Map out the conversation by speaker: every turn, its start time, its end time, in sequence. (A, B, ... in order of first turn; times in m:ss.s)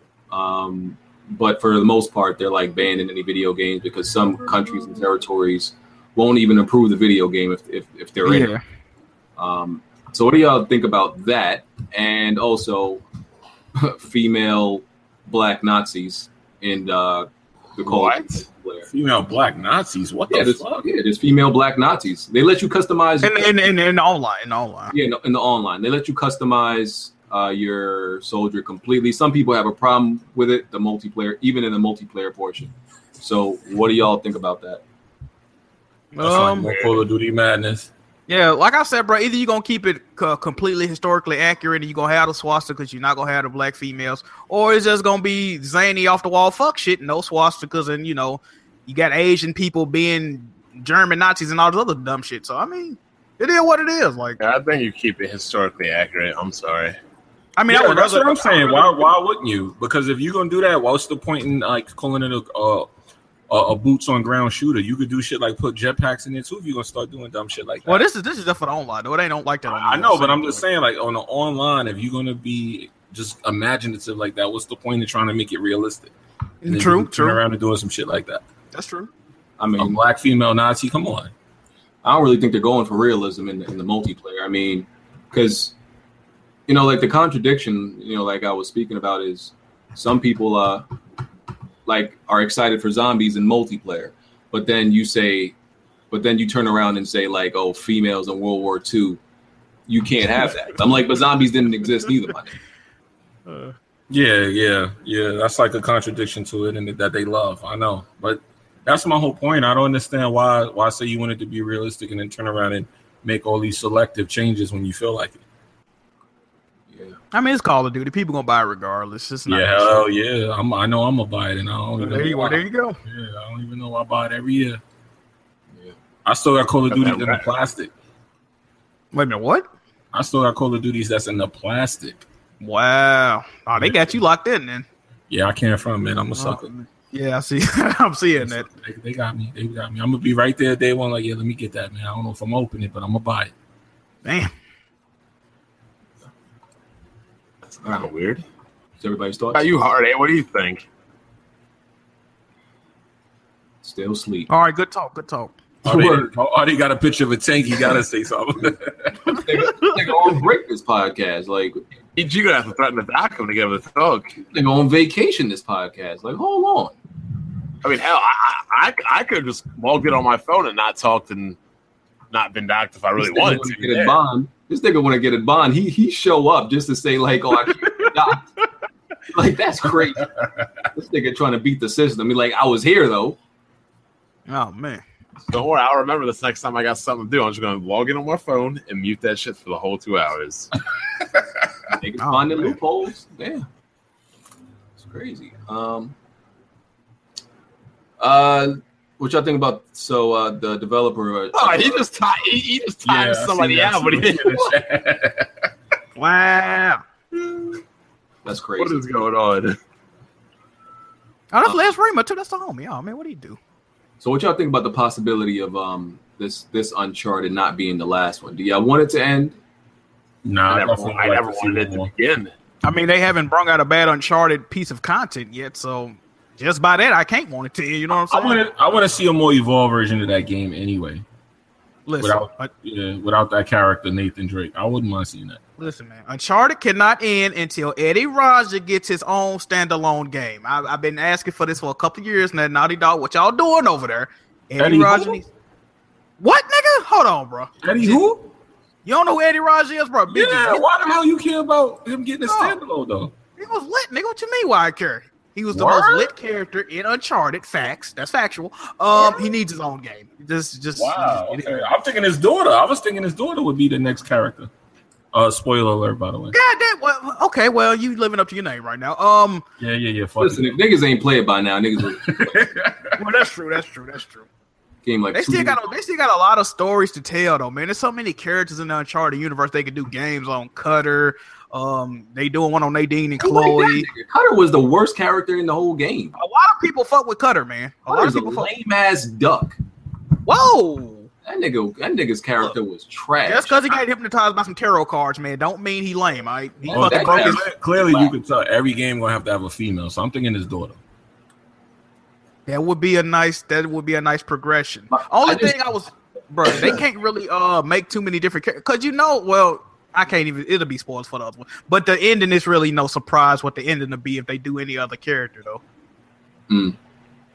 0:00.3-0:08.5 A
0:08.2-0:08.6 B
0:09.4-0:13.0 A
0:13.7-0:18.9 A
0:17.8-0:18.4 C
0:18.9-0:20.8 D
0:20.3-0:23.5 A
0:23.2-0:24.9 B
0:24.9-0:34.8 A
0:36.1-0:36.7 B
0:36.2-0:37.9 D
0:36.7-0:37.0 C
0:38.3-0:54.4 B
0:54.4-0:57.0 C
0:57.6-0:59.0 B
0:57.7-1:02.9 D
1:03.5-1:08.0 D
1:07.8-1:10.6 B
1:09.7-1:16.1 D
1:16.6-1:17.4 B
1:16.6-1:18.4 D
1:18.7-1:19.1 B
1:19.6-1:20.0 A
1:19.8-1:21.3 D
1:22.0-1:25.7 A
1:26.7-1:30.8 A
1:31.8-1:35.5 A
1:36.1-1:39.2 A
1:39.9-1:42.5 A
1:43.5-1:43.7 B
1:44.1-1:55.4 D
1:57.3-2:00.0 B
1:59.5-2:04.8 D
2:02.0-2:03.0 B
2:06.2-2:07.9 D
2:06.9-2:07.4 C
2:09.1-2:09.7 B
2:10.1-2:12.2 D
2:12.6-2:14.8 B
2:13.8-2:14.2 D
2:15.3-2:16.7 D
2:16.3-2:18.7 B
2:18.4-2:23.5 D
2:24.2-2:24.5 B
2:27.7-2:28.4 C
2:29.0-2:29.6 A
2:29.5-2:30.8 C
2:33.8-2:34.5 A
2:34.5-2:35.5 B
2:35.8-2:39.4 D
2:35.8-2:36.3 A
2:39.3-2:41.8 A
2:42.2-2:44.4 C
2:44.5-2:47.0 A
2:47.8-2:51.6 C
2:52.3-2:54.0 C
2:53.2-2:58.4 A
2:59.3-3:00.4 A
3:00.4-3:00.6 D
3:00.9-3:03.4 A
3:04.5-3:05.0 B
3:05.5-3:10.7 C
3:11.9-3:13.6 A
3:12.2-3:12.8 B
3:15.0-3:16.1 A
3:18.2-3:22.0 A
3:21.5-3:24.7 C
3:23.0-3:25.7 D
3:26.2-3:27.0 B
3:28.4-3:29.0 A
3:28.8-3:29.8 C
3:31.5-3:33.6 B
3:34.2-3:39.6 A
3:40.4-3:42.1 D
3:40.7-3:42.5 C
3:42.8-3:48.6 B
3:48.3-3:51.2 D
3:52.1-3:52.7 B
3:52.2-3:55.6 D
3:55.8-4:05.4 B
4:04.8-4:05.4 D
4:06.4-4:08.3 B
4:07.8-4:08.5 D
4:09.0-4:10.8 B
4:10.3-4:13.3 D
4:12.4-4:12.8 B
4:13.6-4:21.9 B
4:15.7-4:16.3 D
4:21.0-4:24.7 D
4:25.3-4:26.6 D
4:26.5-4:29.6 B
4:29.8-4:30.8 D
4:30.4-4:32.6 A
4:32.0-4:33.2 D
4:33.2-4:34.5 B
4:35.0-4:35.8 A
4:35.3-4:44.1 B
4:43.4-4:46.4 A
4:46.4-4:48.7 B
4:48.1-4:49.8 A
4:50.4-4:51.3 B
4:51.4-4:53.9 A
4:53.4-4:57.6 B
4:56.9-4:58.3 A
4:56.9-5:01.0 D
5:02.7-5:15.8 B
5:05.1-5:05.8 A
5:06.7-5:06.9 A
5:16.7-5:17.0 A